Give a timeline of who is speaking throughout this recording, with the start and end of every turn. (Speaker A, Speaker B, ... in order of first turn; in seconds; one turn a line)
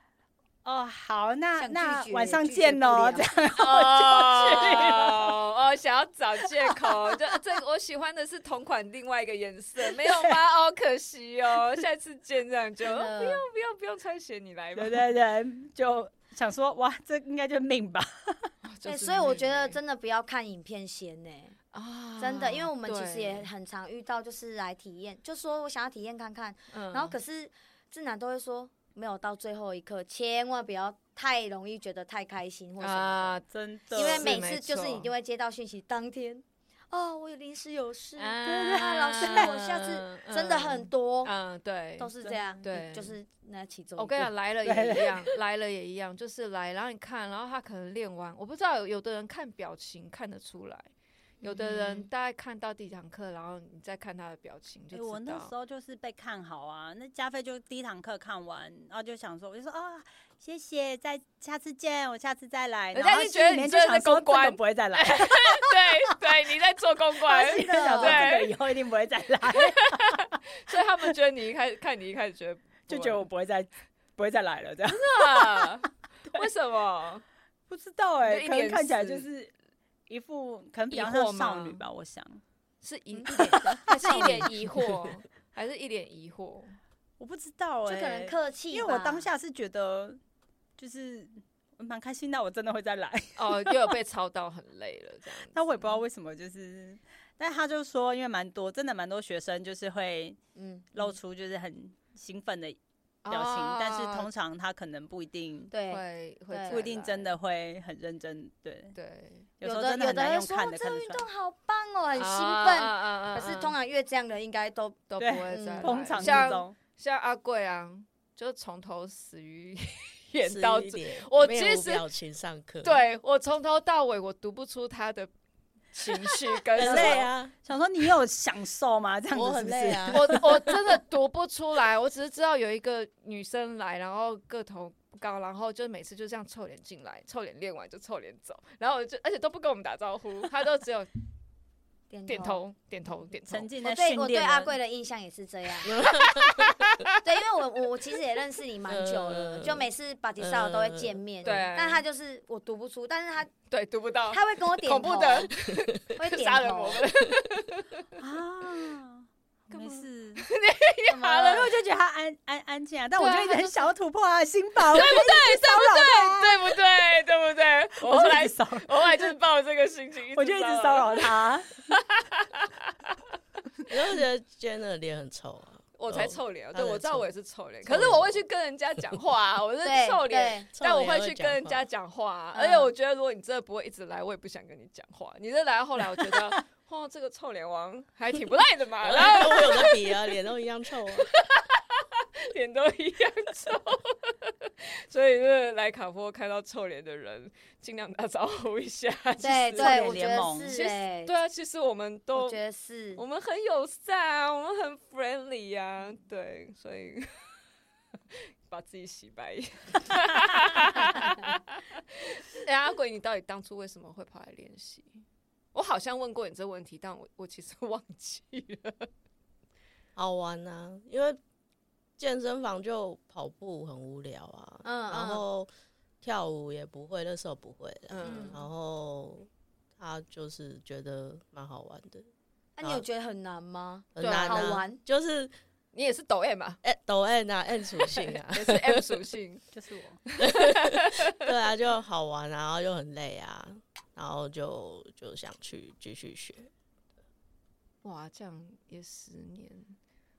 Speaker A: 0.6-5.4
Speaker B: 1.6-3.3
Speaker C: 3.6-15.1
Speaker A: 6.7-7.3
Speaker A: 9.9-10.4
Speaker B: 12.8-13.4
Speaker A: 14.8-18.5
Speaker C: 18.6-19.8
Speaker B: 18.9-21.6
Speaker C: 21.7-23.5
Speaker B: 22.2-33.4
Speaker C: 26.7-27.2
Speaker C: 32.8-35.1
Speaker A: 33.5-34.4
Speaker B: 34.0-41.3
Speaker C: 38.2-42.1
Speaker A: 38.5-39.5
Speaker B: 42.0-44.3
Speaker A: 42.2-42.6
Speaker C: 42.6-43.2
Speaker C: 44.0-50.9
Speaker A: 44.6-45.3
Speaker B: 51.4-52.1
Speaker C: 51.4-55.5
Speaker A: 54.9-66.0
Speaker C: 62.9-68.6
Speaker A: 67.2-70.7
Speaker B: 67.7-68.4
Speaker C: 69.5-73.3
Speaker A: 72.9-75.8
Speaker C: 74.9-77.2
Speaker A: 77.7-79.5
Speaker C: 78.2-79.3
Speaker A: 80.1-82.4
Speaker C: 80.9-81.8
Speaker C: 82.8-86.8
Speaker A: 83.2-84.9
Speaker A: 87.2-90.2
Speaker B: 87.8-89.3
Speaker A: 90.8-94.0
Speaker C: 93.4-96.0
Speaker A: 95.5-100.4
Speaker B: 100.6-101.1
Speaker A: 100.9-105.7
Speaker C: 103.2-104.3
Speaker B: 105.7-106.8
Speaker C: 105.9-107.4
Speaker A: 106.7-109.0
Speaker C: 108.9-109.5
Speaker A: 109.6-111.3
Speaker B: 109.6-116.5
Speaker C: 112.2-113.8
Speaker C: 115.1-122.1
Speaker A: 115.2-116.8
Speaker D: 120.4-123.0
Speaker C: 122.8-125.3
Speaker C: 125.9-127.3
Speaker A: 126.7-130.9
Speaker D: 126.7-127.5
Speaker D: 129.3-130.7
Speaker C: 130.1-141.1
Speaker B: 142.1-142.6
Speaker C: 142.3-143.7
Speaker A: 143.5-144.7
Speaker B: 143.8-146.0
Speaker D: 145.8-146.8
Speaker C: 146.2-147.1
Speaker B: 147.2-153.5
Speaker D: 148.9-149.9
Speaker D: 150.4-151.7
Speaker C: 151.4-152.0
Speaker C: 153.7-158.1
Speaker B: 154.3-155.5
Speaker B: 156.2-157.1
Speaker A: 158.2-160.4
Speaker C: 159.7-161.7
Speaker B: 161.1-161.7
Speaker A: 161.4-166.8
Speaker C: 163.2-163.9
Speaker C: 164.9-173.2
Speaker A: 168.0-169.3
Speaker A: 170.3-171.8
Speaker D: 173.9-177.3
Speaker C: 176.0-190.3
Speaker D: 177.8-178.4
Speaker B: 179.8-180.7
Speaker D: 180.7-181.8
Speaker B: 182.5-182.9
Speaker D: 189.0-191.3
Speaker C: 191.1-202.6
Speaker B: 199.4-201.3
Speaker A: 199.8-200.8
Speaker B: 202.3-203.2
Speaker C: 203.2-207.5
Speaker C: 208.3-215.2
Speaker C: 215.7-219.1
Speaker D: 220.2-221.4
Speaker D: 222.2-225.7
Speaker B: 224.8-225.4
Speaker D: 226.2-232.3
Speaker C: 228.1-228.6
Speaker B: 228.2-228.6
Speaker B: 232.8-235.0
Speaker D: 234.2-235.5
Speaker C: 234.2-234.8
Speaker C: 235.9-236.8
Speaker D: 236.8-239.2
Speaker C: 238.0-239.7
Speaker A: 239.7-240.2
Speaker C: 240.3-241.3
Speaker D: 240.4-246.7
Speaker C: 248.0-250.0